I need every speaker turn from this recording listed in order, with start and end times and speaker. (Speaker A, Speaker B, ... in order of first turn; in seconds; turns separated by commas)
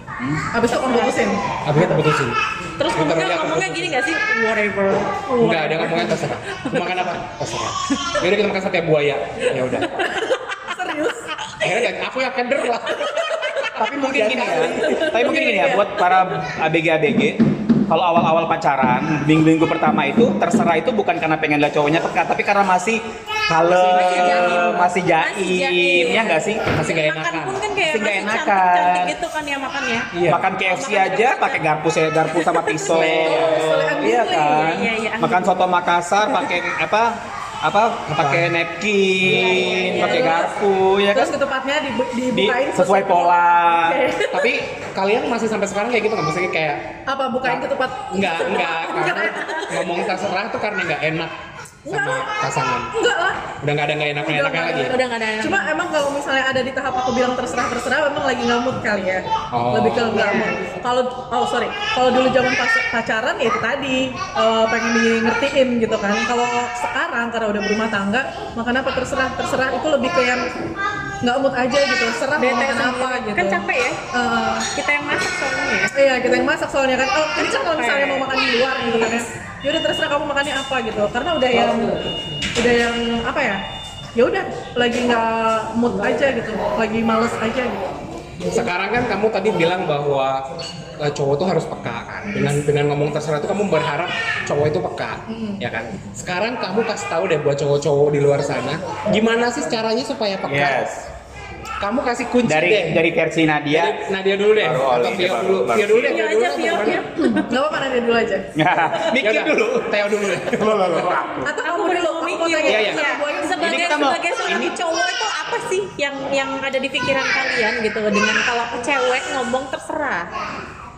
Speaker A: 0.5-2.0, Speaker B: 1.6-4.0, Speaker C: 2.8-6.9, Speaker B: 5.4-10.0, Speaker A: 9.8-11.3, Speaker B: 11.6-15.1, Speaker A: 12.9-13.7, Speaker D: 13.8-26.6, Speaker A: 14.8-16.3, Speaker B: 23.7-24.7, Speaker C: 23.9-30.1, Speaker B: 26.7-27.6, Speaker D: 27.9-29.1, Speaker B: 30.1-30.5, Speaker D: 30.3-41.4, Speaker C: 30.7-31.6, Speaker C: 32.3-33.0, Speaker B: 32.9-33.8, Speaker A: 33.0-34.9, Speaker C: 34.6-35.5, Speaker B: 38.1-38.5, Speaker C: 39.3-40.5, Speaker A: 39.6-40.5, Speaker A: 41.1-44.5, Speaker D: 42.3-44.0, Speaker B: 44.3-51.3, Speaker A: 47.1-50.0, Speaker C: 48.3-49.7, Speaker B: 51.9-52.9, Speaker A: 51.9-52.3, Speaker A: 52.9-53.5, Speaker B: 53.6-55.0, Speaker A: 54.2-70.5, Speaker C: 54.8-55.7, Speaker B: 59.5-60.3, Speaker C: 60.1-60.6, Speaker A: 71.2-74.7, Speaker C: 72.4-74.0, Speaker C: 74.8-75.9, Speaker A: 75.9-82.0, Speaker C: 77.4-78.3, Speaker C: 79.0-79.2, Speaker A: 82.5-83.6, Speaker A: 84.2-87.9, Speaker B: 88.5-90.5, Speaker B: 91.0-100.9, Speaker A: 95.3-95.6, Speaker D: 100.5-101.1, Speaker B: 101.8-103.0, Speaker D: 102.5-104.0, Speaker B: 103.7-107.0, Speaker D: 104.5-106.2, Speaker C: 106.0-107.5, Speaker A: 107.3-109.0, Speaker D: 108.6-111.5, Speaker B: 109.1-111.2, Speaker A: 111.4-114.0, Speaker C: 111.6-120.3, Speaker B: 112.7-113.1, Speaker D: 113.6-114.2